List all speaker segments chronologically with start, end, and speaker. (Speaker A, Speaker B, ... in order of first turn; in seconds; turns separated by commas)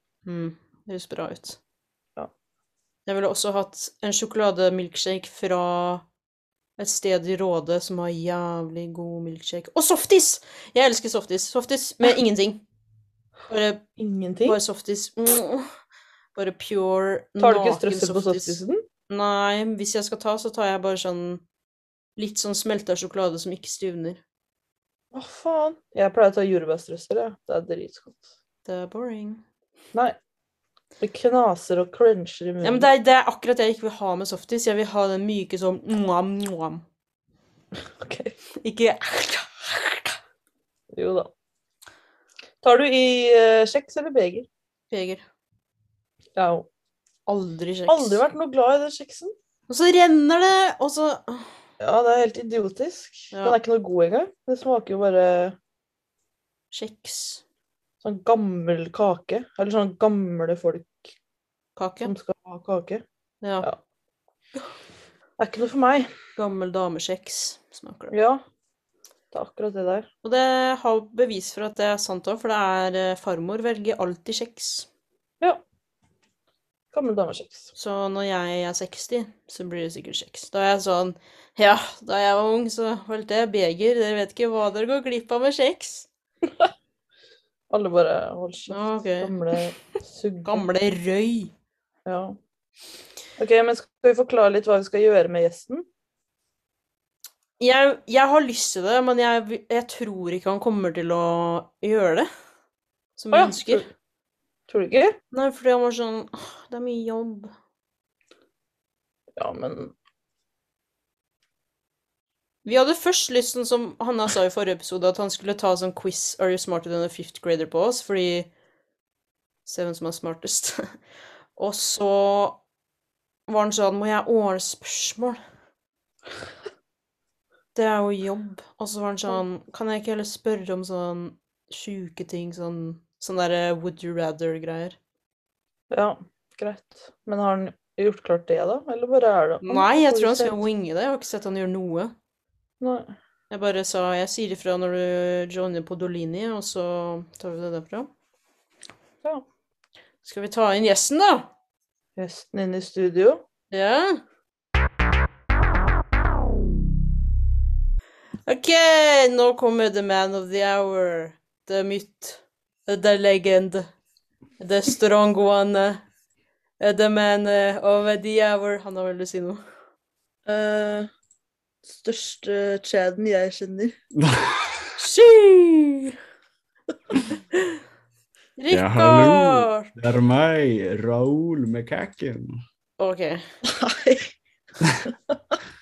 Speaker A: 0.2-1.6, Speaker A: 3.0-6.0, Speaker A: 6.8-12.6, Speaker A: 13.5-13.8, Speaker B: 14.0-14.6, Speaker A: 14.4-15.7, Speaker A: 16.4-18.6, Speaker B: 17.4-18.8, Speaker A: 19.1-21.4, Speaker A: 22.2-24.2, Speaker B: 25.1-28.2, Speaker A: 28.6-29.4, Speaker B: 31.0-32.9, Speaker A: 32.6-36.8, Speaker B: 38.0-38.3, Speaker A: 38.6-40.2, Speaker B: 40.9-41.3, Speaker B: 42.6-44.5, Speaker A: 44.9-45.2, Speaker B: 46.4-46.7, Speaker A: 47.3-48.2, Speaker B: 47.9-49.3, Speaker A: 49.7-51.5, Speaker B: 51.8-55.5, Speaker A: 53.3-53.6, Speaker A: 56.7-57.4, Speaker B: 58.0-61.0, Speaker A: 61.8-62.1, Speaker B: 62.0-63.0, Speaker A: 63.4-63.7, Speaker B: 65.4-66.1, Speaker A: 66.3-68.1, Speaker B: 68.1-68.4, Speaker B: 69.3-70.1, Speaker A: 70.2-74.9, Speaker B: 76.9-77.7, Speaker A: 77.8-86.1, Speaker B: 87.7-90.7, Speaker A: 88.7-89.3, Speaker A: 90.4-91.5, Speaker B: 92.0-92.4, Speaker B: 93.4-95.8, Speaker A: 97.6-102.3, Speaker A: 103.2-103.9, Speaker B: 103.3-103.9, Speaker B: 104.7-105.2, Speaker A: 105.3-107.5, Speaker B: 109.4-109.9, Speaker A: 112.6-118.5, Speaker A: 119.7-120.9, Speaker A: 121.6-122.6, Speaker A: 123.5-125.4, Speaker A: 127.7-134.9, Speaker B: 135.9-140.6, Speaker A: 139.6-142.1, Speaker B: 142.8-143.1, Speaker A: 143.5-148.1, Speaker A: 150.2-151.5, Speaker B: 152.2-153.4, Speaker A: 153.7-154.2, Speaker A: 158.4-163.9, Speaker A: 164.6-166.0, Speaker A: 166.8-169.6, Speaker B: 170.4-171.1, Speaker B: 171.9-173.9, Speaker C: 174.1-174.9, Speaker A: 175.0-176.2, Speaker A: 177.5-177.8, Speaker A: 178.6-179.9, Speaker C: 178.7-182.6, Speaker A: 183.0-183.4, Speaker B: 183.6-184.3